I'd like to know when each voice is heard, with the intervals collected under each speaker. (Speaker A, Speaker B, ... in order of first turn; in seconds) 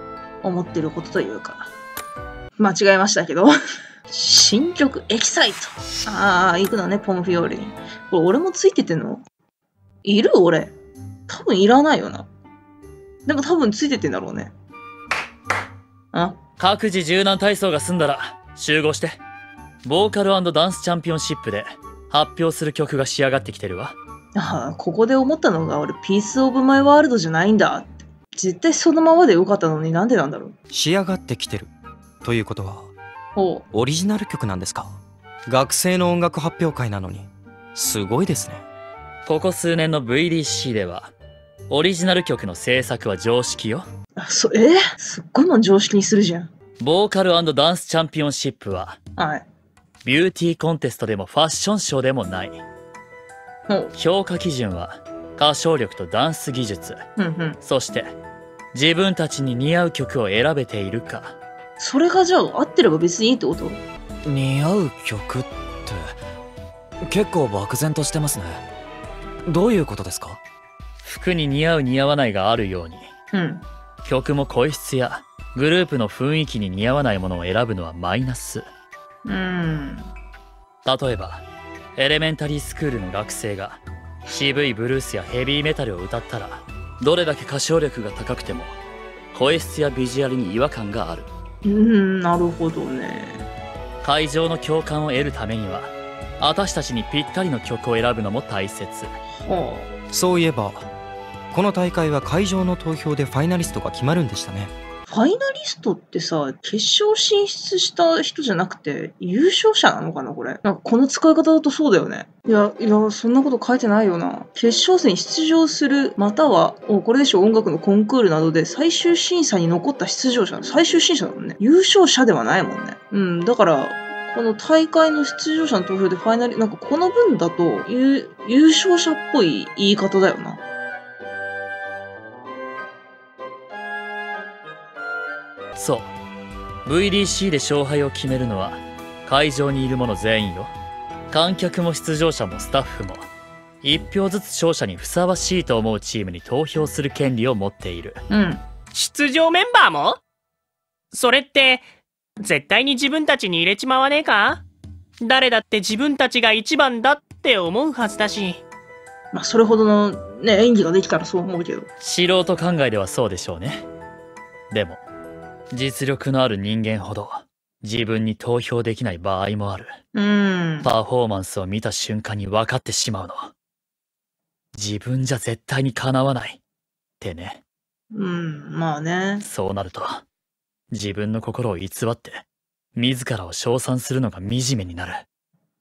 Speaker A: 0.4-1.7, 2.6-3.5, 4.1-9.2, 10.0-10.7, 11.3-12.3, 13.3-14.5, 16.1-16.4, 24.4-30.6, 33.4-33.6, 44.2-46.5, 49.2-49.5, 57.2-57.6, 61.8-63.8, 73.3-73.7, 79.3-80.1, 91.6-93.5, 99.3-99.9, 105.1-130.6, 148.3-148.6, 159.3-161.9, 170.1-170.9, 178.1-179.4
Speaker B: 16.6-19.2, 19.8-24.0, 39.3-41.1, 41.7-43.9, 46.8-49.0, 50.0-52.6, 53.9-57.0, 57.6-58.1, 58.7-61.4, 71.0-73.1, 74.0-78.7, 80.8-81.4, 82.0-88.8, 89.3-91.3, 94.0-99.2, 135.8-136.1, 136.8-140.7, 141.3-143.3, 143.8-148.2, 162.0-163.9, 164.7-165.0, 165.7-169.9, 170.8-173.5, 174.8-176.6, 177.2-177.6, 179.4-180.2, 180.9-182.4, 182.9-185.2
Speaker C: 30.7-31.7, 32.2-32.9, 33.7-38.6, 100.1-100.9, 101.5-104.7
Speaker D: 64.3-66.2, 67.1-68.6, 69.5-70.4
Speaker E: 148.9-150.2, 151.1-151.8, 152.4-154.6, 155.2-158.6